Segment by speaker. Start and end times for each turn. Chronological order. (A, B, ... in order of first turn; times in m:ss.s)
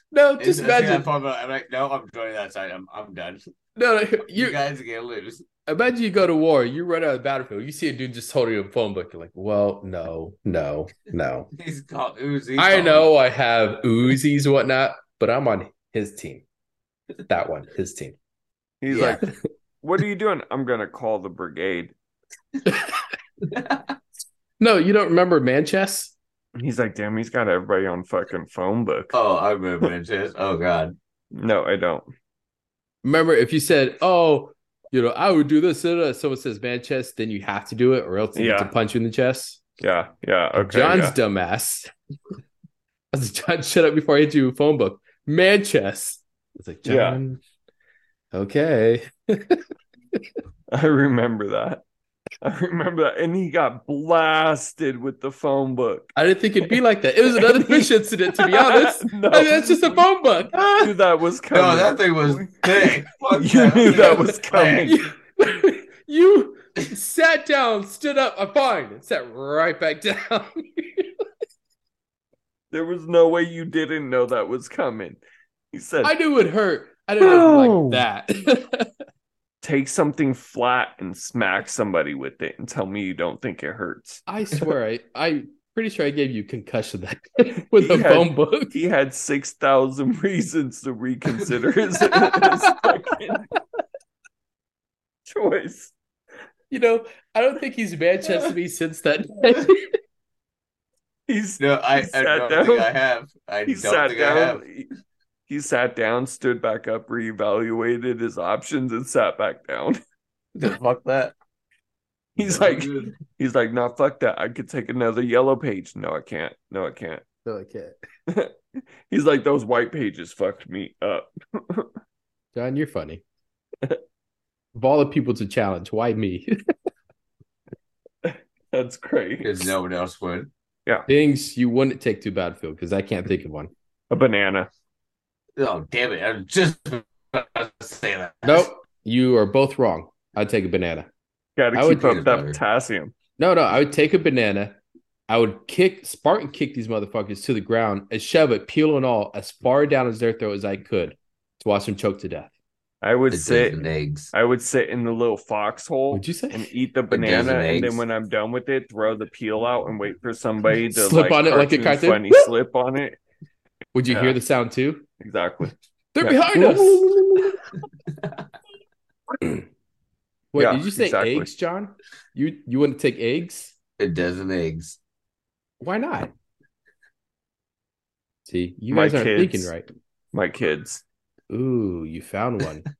0:00.1-0:01.1 A
0:00.4-0:03.5 B
0:03.8-0:04.6 A
0:04.2-0:05.4 B
0:05.7-0:11.5 A
0:11.6-0:13.1 B
0:12.6-0:16.4 A
0:17.3-0:18.2 A
0:18.8-0:19.2 C
0:18.9-0:19.2 B
0:19.8-0:22.0 C
0:22.7-0:22.9 A
0:23.4-0:24.0 B
0:24.6-0:26.2 A
0:26.6-0:29.2 C
0:29.1-0:31.0 B
0:31.3-0:32.1 C
0:33.0-0:39.6 A
0:38.4-0:38.7 C
0:39.8-0:41.2 C
0:40.6-0:41.9 A
0:43.1-0:47.4 A
0:46.9-0:47.2 C
0:48.3-0:49.6 A
0:50.7-0:51.8 C
0:52.4-0:56.1 C
0:56.2-1:00.6 A
0:57.3-1:00.1 C
1:00.6-1:05.0 C
1:01.5-1:05.0 B
1:04.9-1:11.1 A
1:12.7-1:15.2 C
1:15.7-1:16.1 C
1:16.0-1:18.9 A
1:17.2-1:18.1 C
1:19.6-1:24.7 C
1:24.3-1:28.7 A
1:27.7-1:33.5 C
1:35.3-1:35.9 C
1:36.7-1:39.8 A
1:41.3-1:42.9 C
1:41.6-1:44.6 B
1:43.7-1:44.9 C
1:45.5-1:50.0 C
1:50.6-1:51.3 B
1:52.4-1:57.2 C
1:52.4-1:53.1 B
1:57.4-1:58.0 A
1:59.1-2:01.9 C
2:02.5-2:03.2 A
2:04.8-2:06.5 A
2:08.2-2:09.7 C
2:09.4-2:10.5 B
2:11.1-2:13.7 A
2:14.1-2:14.7 C
2:15.6-2:18.7 B
2:18.4-2:21.1 A
2:21.6-2:23.1 C
2:21.8-2:22.1 A
2:21.9-2:22.6 B
2:23.4-2:32.5 A
2:33.0-2:43.2 C
2:33.3-2:34.3 B
2:36.1-2:36.7 A
2:37.1-2:38.0 B
2:40.9-2:42.5 A
2:44.0-2:45.0 A
2:44.1-2:44.4 C
2:45.2-2:47.5 C
2:46.2-2:47.5 A
2:48.2-2:48.4 B
2:50.5-2:53.8 A
2:50.6-2:51.5 C
2:54.0-2:55.0 B
2:55.8-2:56.3 A
2:58.5-2:59.9 A
2:58.9-2:59.7 C
3:00.3-3:01.0 C
3:01.5-3:02.8 A